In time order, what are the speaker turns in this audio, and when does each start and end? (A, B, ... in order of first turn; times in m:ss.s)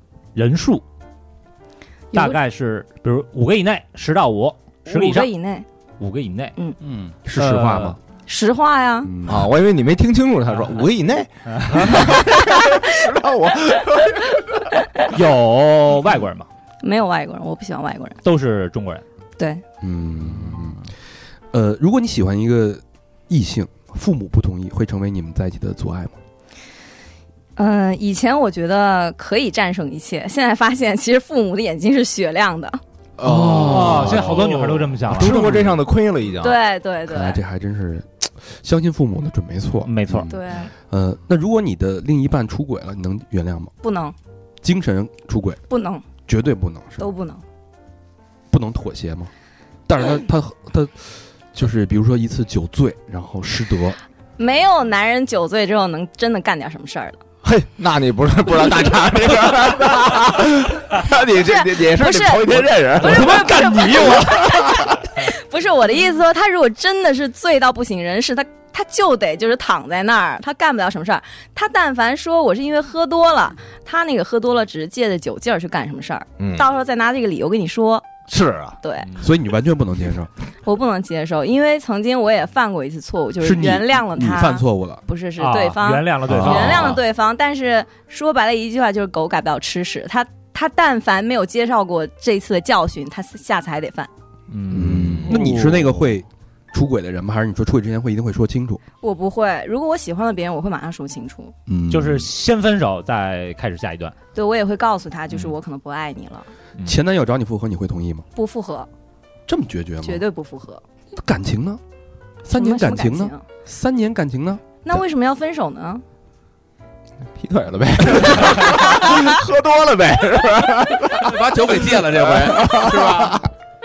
0:00.4-0:00.8 A
0:02.1-0:02.4 B
0:02.1-0:05.3 A
0:04.9-0:05.7 B
0:06.0-0:06.6 A
0:06.8-0:07.2 C
0:07.2-0:08.0 D
0:07.4-0:08.0 A
0:08.3-0:09.1 B
0:09.0-0:09.5 D
0:09.2-0:14.6 E
0:11.5-0:12.2 A
0:12.5-0:12.9 B
0:15.1-0:16.5 A
0:16.8-0:18.2 B
0:18.2-0:19.0 A
0:19.4-0:19.6 B
0:19.8-0:20.9 D
0:21.5-0:26.2 D
0:27.6-0:32.8 B
0:33.2-0:34.5 D
0:33.2-0:36.6 E
0:33.5-0:35.6 A
0:34.4-0:34.6 C
0:35.1-0:35.8 D
0:36.4-0:37.4 B
0:37.1-0:43.7 D
0:39.9-0:40.4 A
0:40.3-0:40.7 B
0:43.8-0:44.2 B
0:44.6-0:45.6 D
0:45.7-0:46.0 B
0:46.3-0:47.1 D
0:47.0-0:47.4 B
0:48.5-0:49.3 D
0:49.9-0:54.0 D
0:54.4-0:57.2 B
0:57.4-1:04.4 E
1:01.4-1:18.1 B
1:02.9-1:04.8 D
1:16.4-1:16.7 E
1:18.3-1:18.8 E
1:18.8-1:19.1 B
1:19.2-1:20.3 D
1:20.6-1:34.1 B
1:23.4-1:25.0 D
1:25.4-1:27.0 A
1:26.3-1:26.8 E
1:34.5-1:35.7 A
1:34.7-1:35.4 E
1:34.7-1:38.8 D
1:35.3-1:35.7 C
1:39.0-1:41.5 B
1:41.7-1:42.3 D
1:41.9-1:44.2 A
1:44.4-1:46.5 B
1:46.8-1:48.2 D
1:48.4-1:48.9 B
1:49.5-1:50.2 D
1:50.0-1:50.8 B
1:51.1-1:51.8 D
1:52.4-1:55.0 D
1:52.5-1:53.4 B
1:54.8-1:56.0 B
1:57.3-2:03.5 E
2:01.2-2:03.5 C